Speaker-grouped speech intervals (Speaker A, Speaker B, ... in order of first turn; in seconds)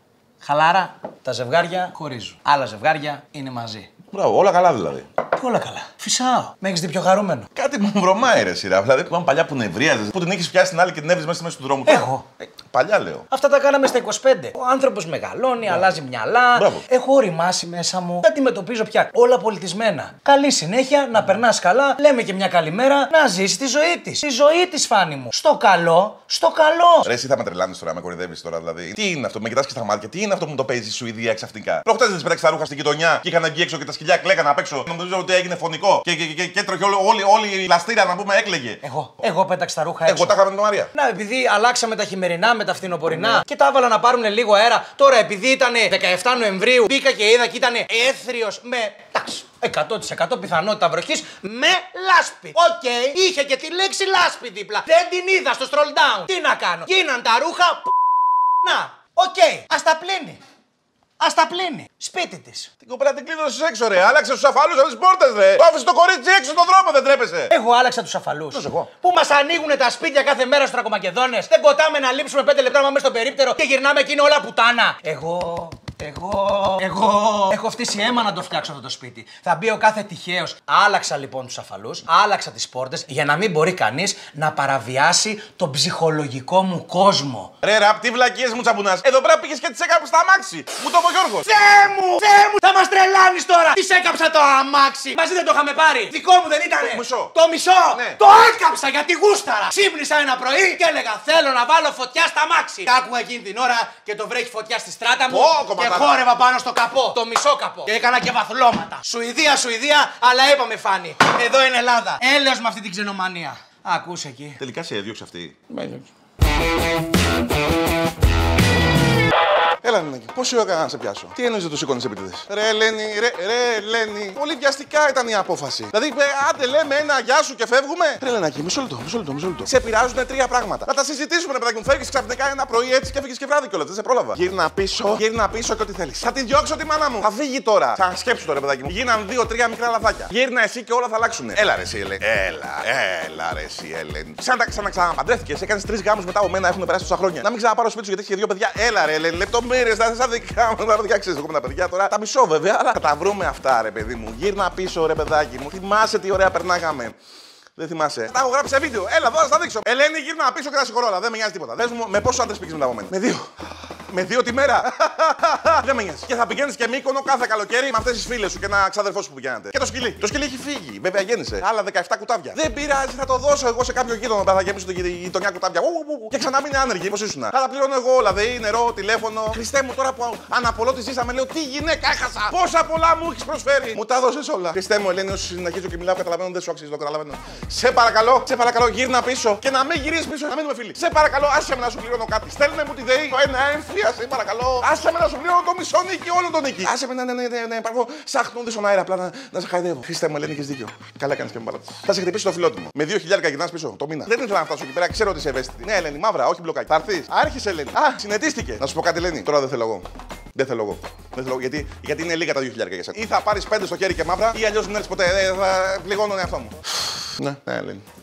Speaker A: 0.4-3.9, 5.3-7.5, 11.9-12.2, 13.3-27.1, 38.8-40.4, 40.9-57.9, 58.6-60.4, 61.2-62.7, 67.5-87.5, 91.5-114.6
Speaker B: 4.1-5.1, 7.5-13.2, 16.6-16.8, 27.1-38.8, 40.1-40.9, 62.8-67.5, 68.5-68.9, 87.6-91.8, 96.8-97.3, 97.9-98.2, 105.3-106.1, 114.6-116.0, 119.8-157.2, 157.8-163.5, 164.1-218.1